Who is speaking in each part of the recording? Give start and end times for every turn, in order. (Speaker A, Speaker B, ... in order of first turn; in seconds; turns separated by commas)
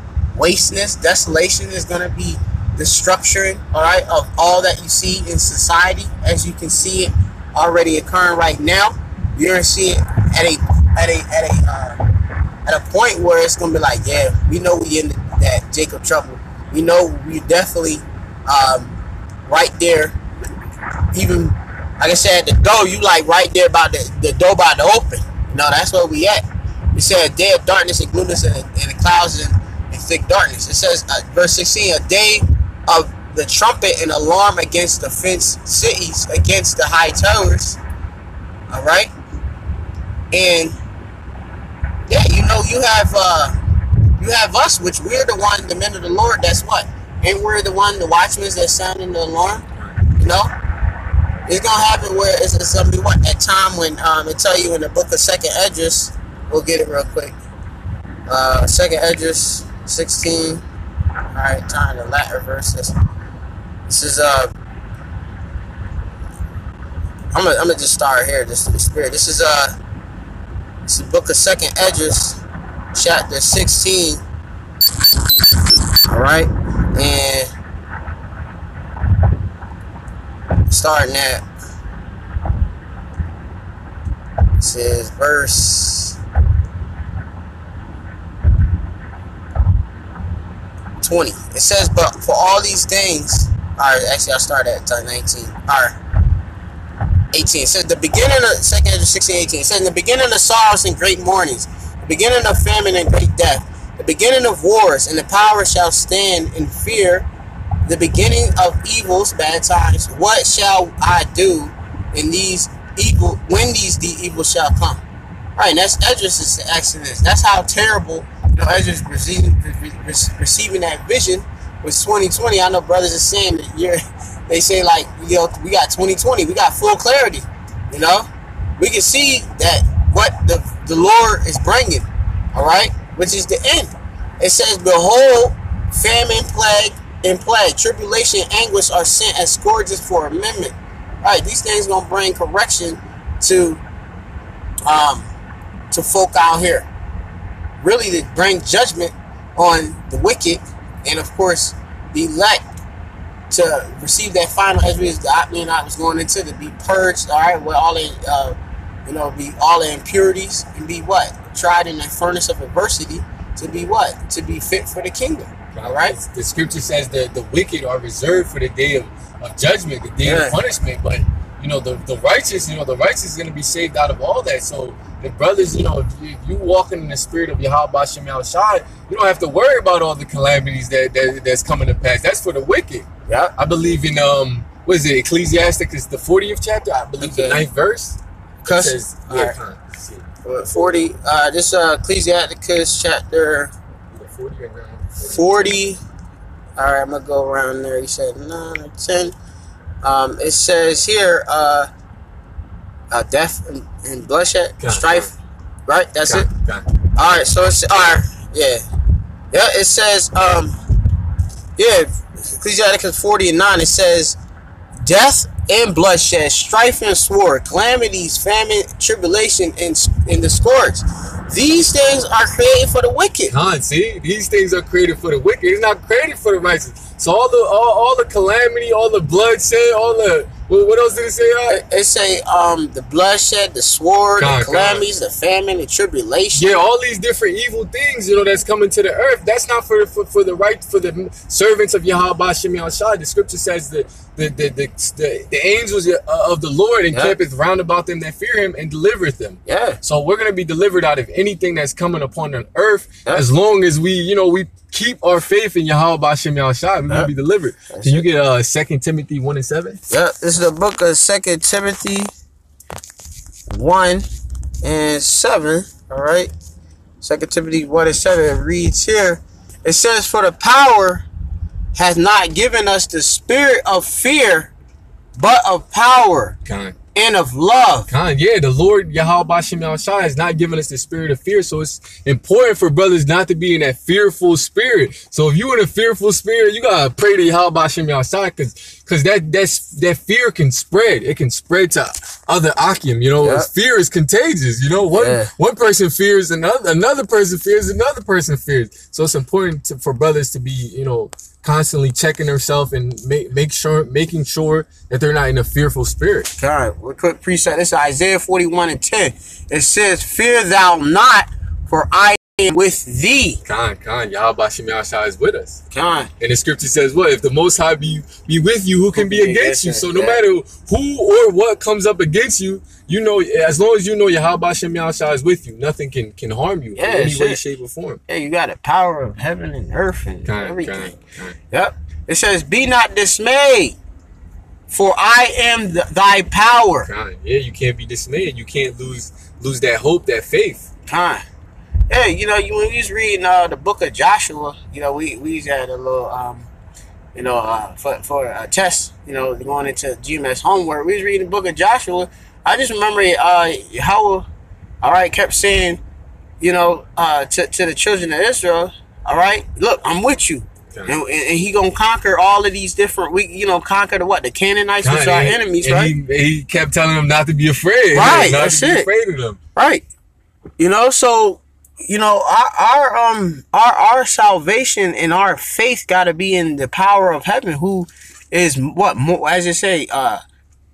Speaker A: 0.3-12.1, Speaker A: 12.7-20.2, Speaker A: 21.1-26.4, Speaker A: 26.9-37.8, Speaker A: 38.7-39.1, Speaker A: 40.3-40.8, Speaker A: 42.1-43.5, Speaker A: 44.2-50.5, Speaker A: 51.5-57.4, Speaker A: 58.3-60.6, Speaker A: 61.3-63.0, Speaker A: 63.9-64.5, Speaker A: 67.3-69.8, Speaker A: 70.9-72.4, Speaker A: 72.9-74.2, Speaker A: 76.1-77.5, Speaker A: 80.7-81.5, Speaker A: 84.6-86.2, Speaker A: 91.0-96.0, Speaker A: 97.3-107.3, Speaker A: 107.9-115.0, Speaker A: 115.6-128.3, Speaker A: 128.8-143.8, Speaker A: 144.9-145.3, Speaker A: 145.9-146.9, Speaker A: 147.8-152.6, Speaker A: 153.5-166.2, Speaker B: 165.7-190.3, Speaker A: 170.2-170.6, Speaker A: 183.3-183.5, Speaker A: 187.2-187.7, Speaker A: 188.6-189.6, Speaker A: 190.4-193.7, Speaker B: 194.1-195.7, Speaker A: 195.2-196.0, Speaker A: 196.8-199.3, Speaker A: 200.0-201.9, Speaker A: 203.1-205.3, Speaker B: 204.8-205.3, Speaker A: 205.9-206.5, Speaker B: 206.3-206.9, Speaker A: 207.2-208.8, Speaker A: 209.5-210.8, Speaker A: 211.8-214.4, Speaker A: 215.0-223.5, Speaker B: 223.5-231.8, Speaker A: 231.7-236.8, Speaker B: 234.4-235.1, Speaker B: 236.5-260.0, Speaker A: 247.1-247.4, Speaker A: 249.7-250.0, Speaker A: 257.9-258.3, Speaker A: 260.1-262.3, Speaker A: 263.7-264.3, Speaker A: 264.8-266.5, Speaker A: 267.2-271.2, Speaker A: 271.9-274.7, Speaker A: 275.4-276.6, Speaker B: 276.6-277.0, Speaker A: 277.1-278.1, Speaker B: 278.1-306.5, Speaker A: 293.4-293.7, Speaker A: 295.1-295.5, Speaker A: 306.6-313.6, Speaker B: 313.6-315.8, Speaker A: 315.9-316.3, Speaker B: 316.4-328.2, Speaker A: 319.1-320.4, Speaker A: 327.0-327.6, Speaker A: 328.3-331.1, Speaker B: 330.5-331.6, Speaker A: 331.7-334.0, Speaker A: 334.9-337.1, Speaker B: 337.1-340.9, Speaker A: 341.1-341.4, Speaker A: 342.1-346.7, Speaker A: 347.4-354.5, Speaker A: 355.0-356.0, Speaker A: 356.6-366.1, Speaker B: 365.0-369.6, Speaker A: 368.1-369.1, Speaker A: 369.8-370.0, Speaker A: 370.8-380.4